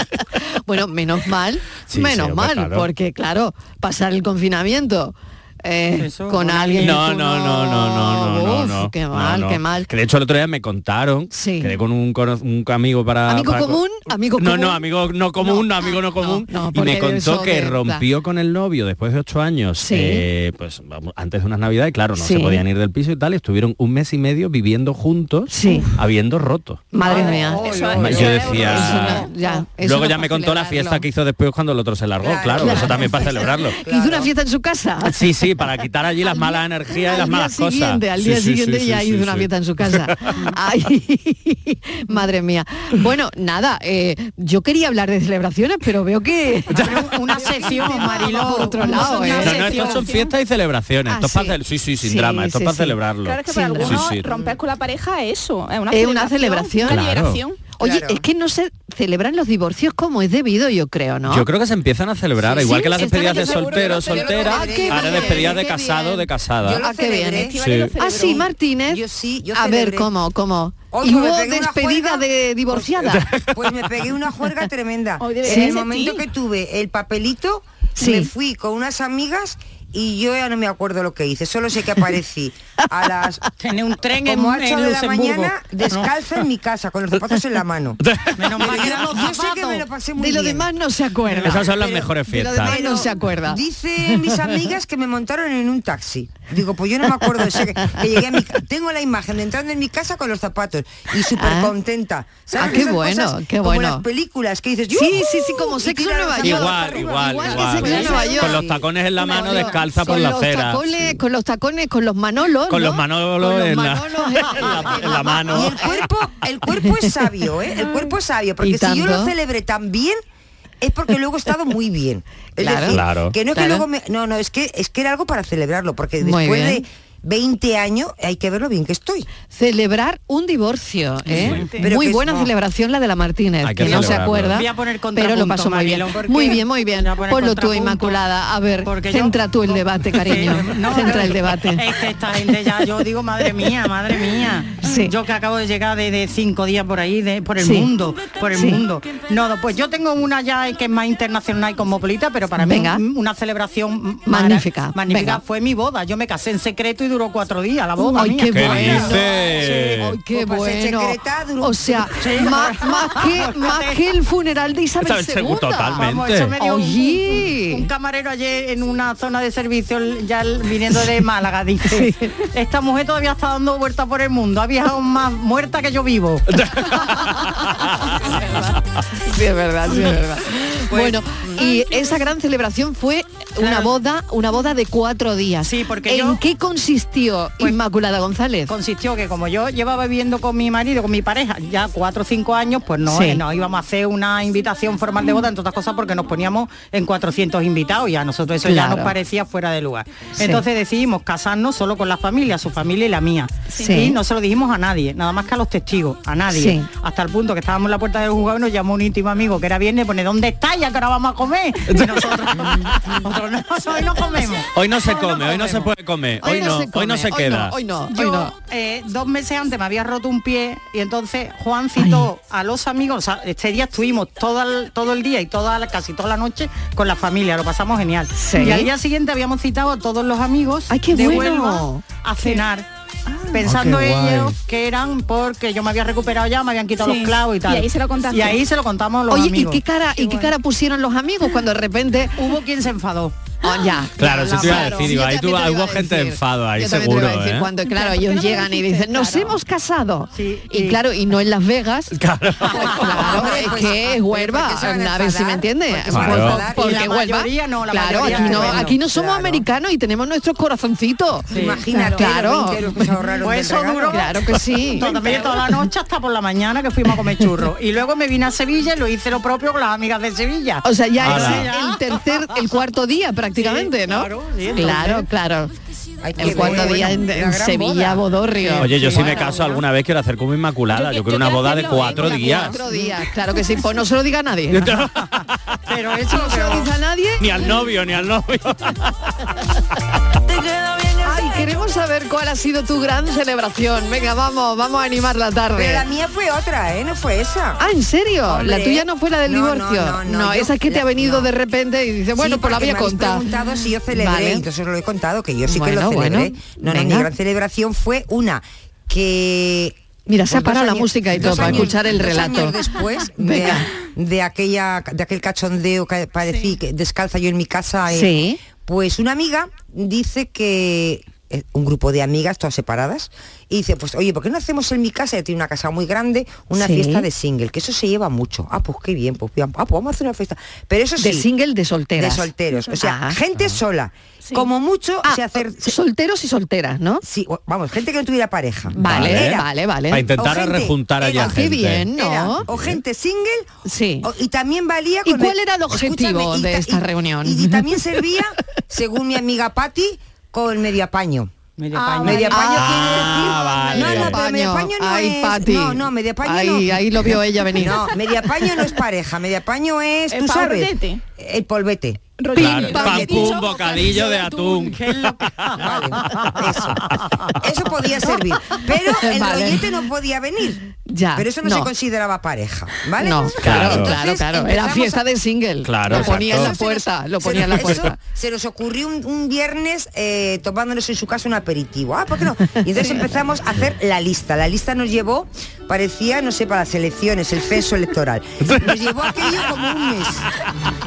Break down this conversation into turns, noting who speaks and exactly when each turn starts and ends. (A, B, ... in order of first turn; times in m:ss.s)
0:00.6-0:09.9 A
0:01.9-0:02.9 B
0:06.0-0:07.0 C
0:06.8-0:13.8 B
0:11.3-0:11.8 A
0:13.3-0:14.8 A
0:14.4-0:26.9 B
0:15.4-0:18.0 A
0:19.8-0:20.3 A
0:22.2-0:22.6 A
0:25.5-0:25.9 A
0:26.9-0:31.0 A
0:27.0-0:29.0 C
0:27.0-0:29.3 D
0:27.9-0:33.8 B
0:32.2-0:34.3 E
0:32.6-0:35.2 A
0:35.0-0:40.3 B
0:36.3-0:46.9 A
0:46.8-0:50.2 C
0:47.6-0:50.3 D
0:47.7-0:49.8 A
0:49.4-0:54.4 B
0:51.1-0:53.0 A
0:53.2-0:57.6 D
0:53.5-0:54.0 A
0:55.9-0:57.0 A
0:56.8-0:57.4 B
0:57.8-1:01.5 A
0:57.8-0:58.2 E
1:01.3-1:06.8 B
1:02.4-1:09.0 A
1:02.9-1:05.6 E
1:06.6-1:07.6 E
1:07.3-1:08.5 D
1:07.6-1:07.9 B
1:08.9-1:10.1 E
1:09.5-1:13.3 A
1:10.9-1:12.2 E
1:13.1-1:13.5 B
1:13.5-1:23.4 E
1:15.2-1:16.2 D
1:15.4-1:15.8 A
1:18.0-1:18.3 A
1:23.6-1:26.1 C
1:24.2-1:28.0 E
1:28.1-1:28.3 B
1:28.4-1:29.8 C
1:28.6-1:30.7 E
1:30.2-1:33.6 A
1:31.3-1:48.8 E
1:31.4-1:32.8 B
1:41.4-1:41.7 A
1:42.6-1:44.0 A
1:44.9-1:55.8 A
1:46.4-1:51.2 B
1:48.0-1:48.2 D
1:52.7-1:55.9 B
1:55.5-2:00.2 E
1:58.6-1:59.3 A
2:00.8-2:09.3 E
2:02.6-2:03.0 A
2:02.9-2:03.3 B
2:03.5-2:03.8 A
2:06.2-2:06.8 A
2:09.5-2:21.8 A
2:11.3-2:11.8 C
2:11.4-2:11.6 B
2:11.8-2:12.5 E
2:13.6-2:14.6 B
2:13.8-2:18.2 C
2:18.8-2:39.2 C
2:24.8-2:25.1 A
2:27.6-2:27.9 A
2:28.5-2:28.8 A
2:32.6-2:33.0 A
2:34.2-2:35.4 A
2:38.0-2:46.0 A
2:38.5-2:40.2 B
2:40.3-2:42.4 E
2:42.2-2:44.0 C
2:45.0-2:46.5 B
2:46.0-2:56.5 C
2:46.6-2:47.9 A
2:51.9-2:52.3 A
2:56.6-2:57.0 B
2:59.3-3:08.7 A
3:00.9-3:01.9 C
3:03.6-3:03.9 C
3:05.6-3:06.4 C
3:08.7-3:35.9 C
3:13.1-3:13.4 A
3:18.6-3:19.1 A
3:20.4-3:20.6 A
3:23.8-3:24.2 A
3:26.5-3:26.9 A
3:34.7-3:37.7 B
3:36.4-3:38.5 A
3:38.1-3:52.8 C
3:42.0-3:42.3 A
3:48.3-3:48.9 A
3:50.9-3:52.6 A
3:53.3-3:53.8 A
3:53.5-3:59.8 C
3:53.6-3:54.5 B
3:57.0-3:58.6 D
3:59.3-4:02.4 A
4:00.2-4:00.5 D
4:02.4-4:03.3 C
4:03.6-4:12.2 A
4:04.2-4:07.7 B
4:04.2-4:05.1 C
4:07.8-4:09.5 D
4:10.3-4:11.0 C
4:12.2-4:12.8 B
4:12.7-4:22.9 A
4:12.8-4:13.5 C
4:12.8-4:17.1 E
4:16.1-4:16.6 B
4:16.6-4:19.6 C
4:18.1-4:18.9 E
4:21.5-4:24.2 E
4:21.5-4:21.8 C
4:23.4-4:24.3 C
4:24.1-4:25.6 A
4:24.9-4:32.2 C
4:30.8-4:35.7 A
4:31.2-4:31.7 B
4:33.6-4:35.3 C
4:36.2-4:38.2 E
4:36.4-4:39.7 A
4:36.4-4:36.8 C
4:38.8-4:42.8 B
4:40.9-4:42.8 D
4:42.2-4:45.0 A
4:44.7-4:45.3 B
4:45.9-4:46.9 C
4:46.3-4:47.8 A
4:47.4-4:49.1 B
4:51.2-4:56.0 A
4:55.7-4:57.8 E
4:57.8-5:03.4 A
4:58.4-5:01.5 E
5:02.4-5:31.5 E
5:04.1-5:04.6 A
5:05.6-5:07.3 A
5:10.3-5:12.8 A
5:13.4-5:13.9 A
5:18.1-5:18.6 A
5:26.8-5:27.3 A
5:31.2-5:33.4 A
5:32.2-5:36.0 E
5:35.2-5:37.2 A
5:37.2-5:39.6 E
5:39.0-5:40.3 A
5:39.0-5:42.1 B
5:40.4-5:41.6 E
5:41.4-5:42.6 A
5:42.1-5:43.7 E
5:42.7-5:43.0 B
5:43.8-5:44.3 A
5:44.2-5:57.0 E
5:45.2-5:48.0 A
5:51.8-5:52.7 C
5:52.5-5:58.1 A
5:52.7-5:54.4 B
5:57.7-6:03.6 E
6:00.3-6:01.2 D
6:02.4-6:04.9 D
6:02.5-6:05.0 B
6:02.6-6:03.5 A
6:04.8-6:06.5 C
6:05.8-6:07.0 E
6:07.6-6:10.8 E
6:09.0-6:09.8 A
6:11.0-6:11.9 A
6:11.3-6:15.2 E
6:13.2-6:18.2 A
6:13.6-6:14.2 B
6:15.8-6:16.7 B
6:16.1-6:30.4 E